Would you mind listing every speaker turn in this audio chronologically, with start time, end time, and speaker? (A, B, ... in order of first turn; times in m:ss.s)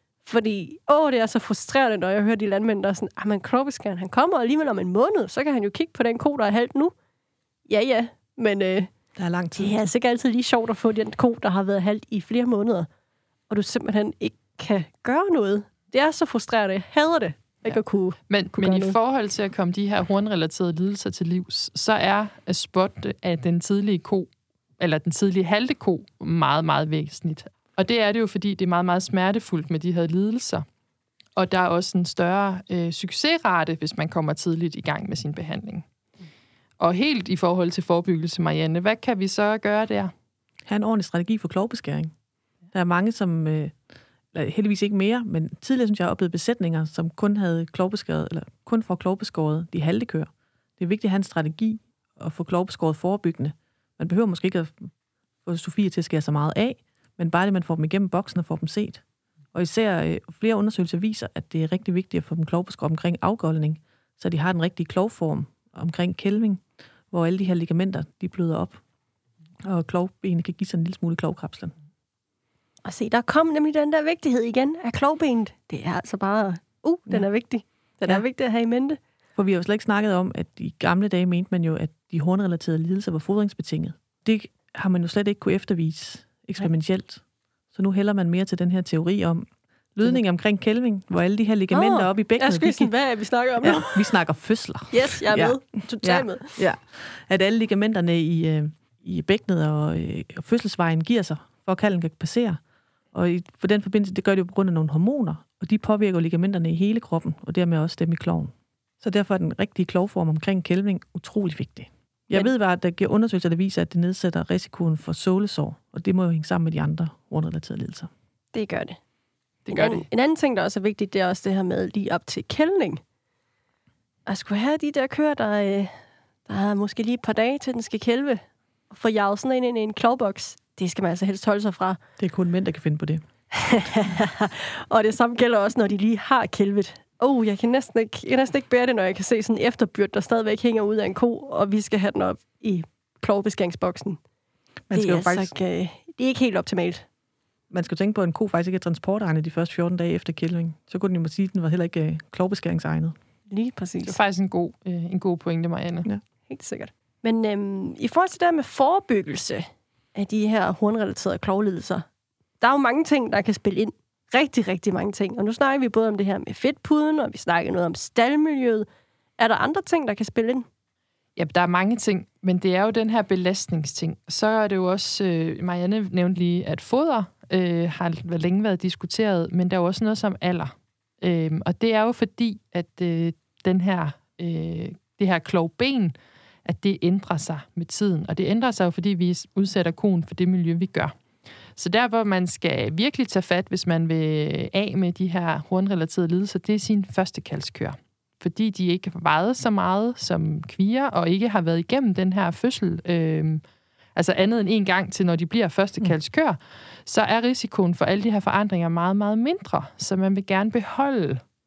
0:00.2-0:06.9 A
0:07.7-0:08.9 A
0:09.2-0:09.9 B
0:09.6-0:12.9 A
0:13.5-0:19.0 A
0:18.3-0:24.3 C
0:24.8-0:30.6 C
0:31.4-0:35.8 C
0:36.8-0:40.1 C
0:40.7-0:42.1 B
0:42.7-0:43.8 B
0:44.3-0:54.9 B
0:55.4-0:59.0 B
0:59.5-1:08.8 B
1:09.6-1:11.8 B
1:12.8-1:19.0 A
1:19.4-1:27.2 B
1:27.7-1:32.9 B
1:31.7-1:34.1 A
1:33.6-1:42.6 B
1:34.9-1:36.6 A
1:43.1-1:58.1 B
1:58.5-1:59.0 A
1:59.7-2:00.0 C
1:59.7-2:03.0 A
2:04.3-2:06.0 A
2:06.5-2:12.0 A
2:12.2-2:13.2 B
2:13.5-2:24.2 A
2:24.9-2:25.5 B
2:24.9-2:27.0 A
2:27.7-2:33.2 B
2:33.5-2:34.2 A
2:34.0-2:36.1 C
2:36.5-2:42.0 A
2:42.6-2:48.9 A
2:49.4-2:50.6 A
2:51.4-3:06.1 C
3:06.6-3:11.1 C
3:11.8-3:23.6 C
3:24.2-3:31.4 C